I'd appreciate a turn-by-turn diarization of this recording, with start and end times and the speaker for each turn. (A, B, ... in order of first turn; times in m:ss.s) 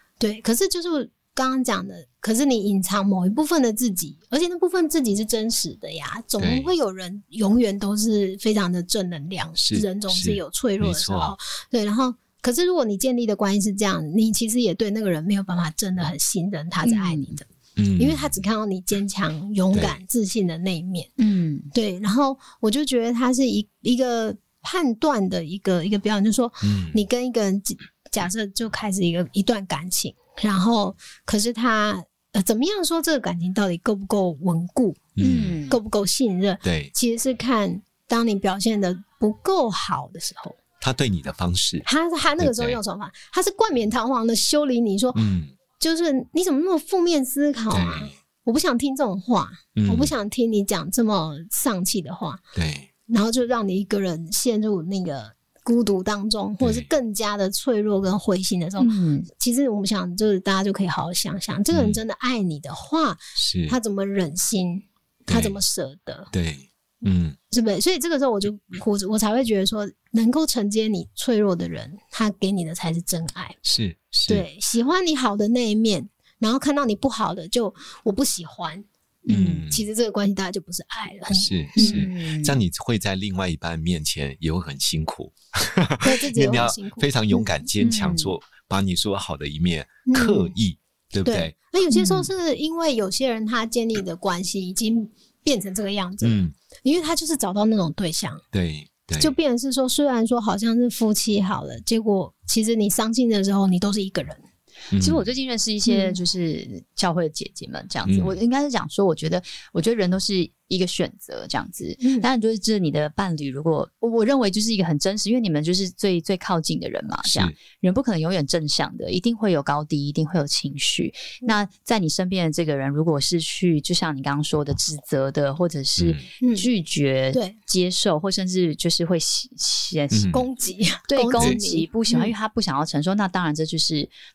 0:00.2-0:21.1 A
0:06.4-0:06.7 B
0:09.6-0:11.4 B
0:16.8-0:17.3 C
0:17.8-0:18.4 B
0:19.7-0:20.0 B
0:21.2-0:21.7 C
0:21.7-0:40.6 A
0:26.6-0:27.0 B
0:35.2-0:35.6 B
0:35.2-0:35.8 C
0:36.6-0:36.9 B
0:40.8-0:41.9 B
0:41.8-0:45.2 A
0:42.4-0:42.8 B
0:45.1-0:45.6 B
0:45.8-0:52.4 A
0:47.7-0:48.1 B
0:49.8-0:50.1 B
0:52.6-0:52.9 B
0:53.1-1:06.3 A
0:56.6-0:56.9 B
0:58.8-0:59.3 C
1:01.7-1:02.0 B
1:03.4-1:03.8 B
1:05.3-1:05.6 B
1:06.3-1:07.4 B
1:07.5-1:13.6 A
1:13.6-1:14.5 B
1:14.3-1:22.1 A
1:19.3-1:19.9 B
1:21.3-1:31.5 B
1:21.8-1:22.6 C
1:26.0-1:27.5 A
1:27.8-1:28.3 C
1:30.1-1:30.5 A
1:31.2-1:38.4 A
1:31.9-1:32.3 C
1:36.2-1:36.5 B
1:38.5-1:39.4 B
1:39.2-1:44.4 A
1:44.9-1:45.2 B
1:45.0-2:10.3 C
1:45.9-1:46.2 A
1:48.1-1:48.4 B
1:52.0-1:52.3 A
1:57.2-1:57.6 B
2:06.0-2:06.3 B
2:06.4-2:06.7 A
2:10.1-2:10.4 B
2:10.3-2:12.3 A
2:11.1-2:14.1 C